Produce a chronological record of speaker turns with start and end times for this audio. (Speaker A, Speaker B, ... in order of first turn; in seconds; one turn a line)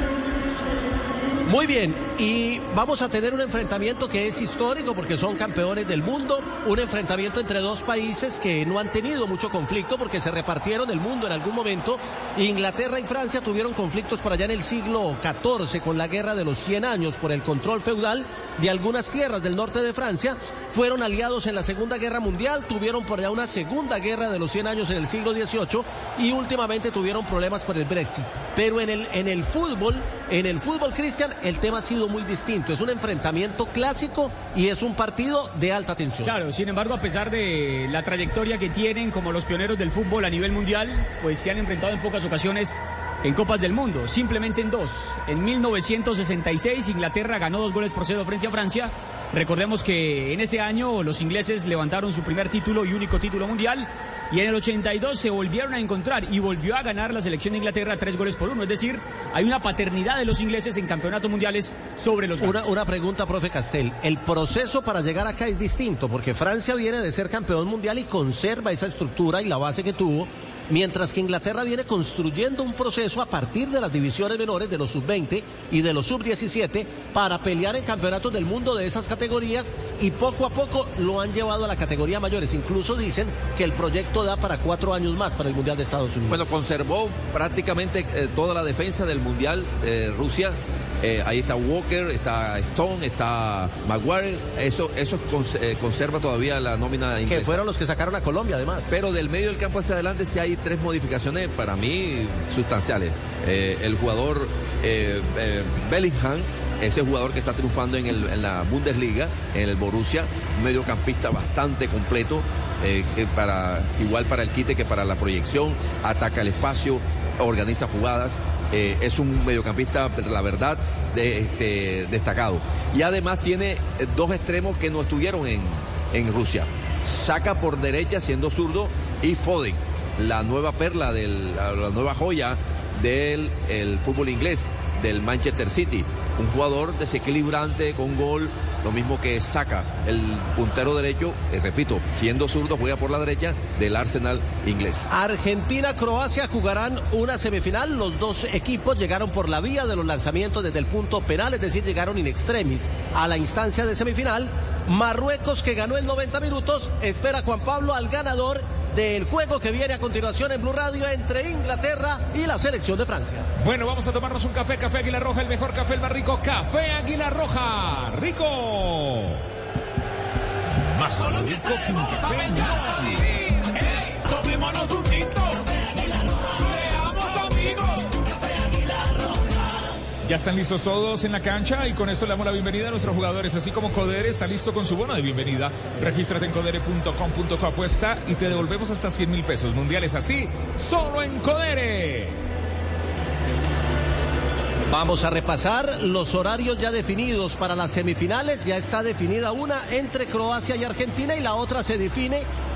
Speaker A: 1.4-36.3
Speaker B: 36.2-62.8
Speaker A: 62.4-86.4
Speaker C: 86.3-97.6
Speaker A: 97.2-98.9
Speaker C: 98.9-145.1
Speaker A: 145.1-163.4
Speaker D: 163.6-169.4
Speaker D: 170.8-173.2
Speaker D: 180.2-192.4
Speaker A: 194.9-202.5